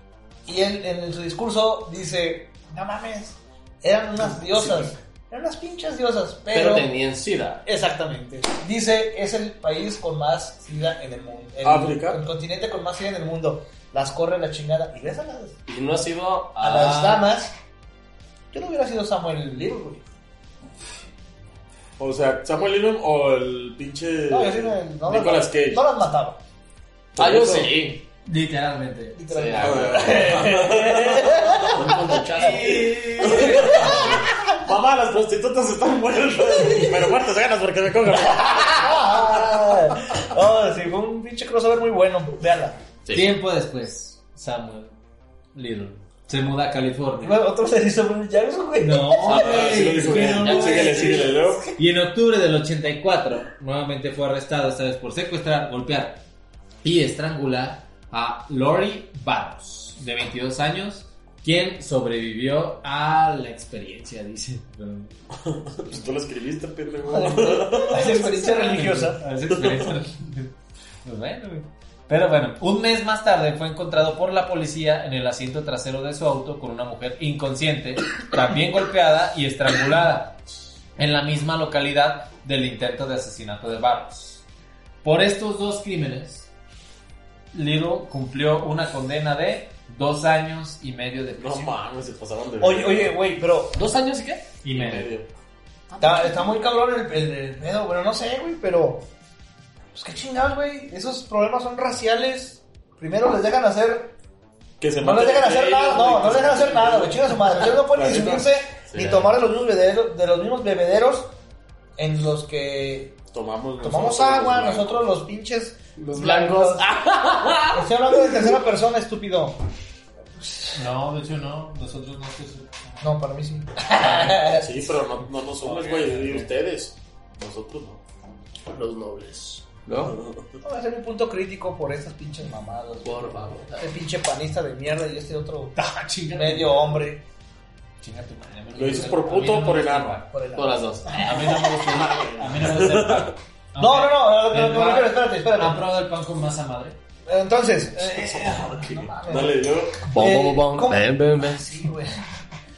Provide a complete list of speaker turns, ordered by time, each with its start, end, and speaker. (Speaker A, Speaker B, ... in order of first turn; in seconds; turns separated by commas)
Speaker A: 0.5-6.9, Speaker B: 4.3-4.9, Speaker B: 6.5-7.6, Speaker A: 7.7-15.6, Speaker C: 11.6-12.2, Speaker B: 15.7-17.2, Speaker A: 16.6-17.5, Speaker D: 16.7-17.2, Speaker A: 18.5-20.0, Speaker C: 22.0-25.8, Speaker A: 24.3-26.4, Speaker C: 27.1-27.7, Speaker B: 27.2-28.0, Speaker D: 28.2-29.2, Speaker A: 29.1-32.8, Speaker B: 29.3-33.9, Speaker C: 29.6-32.0, Speaker D: 32.3-34.1, Speaker C: 33.2-39.3, Speaker A: 33.4-34.2, Speaker A: 36.5-36.9, Speaker A: 38.1-42.8, Speaker D: 43.1-44.9, Speaker D: 45.5-47.4, Speaker A: 47.2-49.7, Speaker D: 48.8-56.2, Speaker C: 49.2-51.7, Speaker B: 49.3-51.4, Speaker D: 56.8-65.1, Speaker C: 65.4-68.4, Speaker A: 67.1-69.2, Speaker D: 68.0-80.4, Speaker C: 69.5-69.8, Speaker D: 81.0-84.4, Speaker D: 85.0-86.5, Speaker D: 87.5-91.8, Speaker C: 91.4-93.2, Speaker A: 92.6-93.8, Speaker B: 93.7-94.4, Speaker D: 94.6-95.1, Speaker C: 94.7-95.3, Speaker B: 95.9-96.5, Speaker A: 96.0-99.0, Speaker A: 99.9-104.1, Speaker C: 104.8-108.5, Speaker A: 105.0-111.3, Speaker B: 108.9-109.3, Speaker A: 112.0-113.2, Speaker C: 113.3-115.1, Speaker A: 113.8-116.8, Speaker B: 116.0-117.8, Speaker A: 117.7-119.6, Speaker D: 120.7-123.0, Speaker A: 123.0-124.7, Speaker D: 124.0-124.3, Speaker C: 124.3-128.0, Speaker D: 125.6-126.5, Speaker B: 128.7-130.2, Speaker C: 130.0-130.5, Speaker A: 130.6-133.2, Speaker B: 133.0-133.9, Speaker A: 133.8-135.7, Speaker D: 135.8-137.0, Speaker A: 136.3-137.2, Speaker D: 138.0-140.2, Speaker C: 138.7-140.2, Speaker A: 140.3-141.5, Speaker B: 140.5-141.3, Speaker D: 141.1-146.9, Speaker C: 141.8-143.3, Speaker A: 143.8-145.8, Speaker A: 147.3-149.5, Speaker C: 147.9-150.1, Speaker A: 150.1-152.2, Speaker B: 150.1-151.8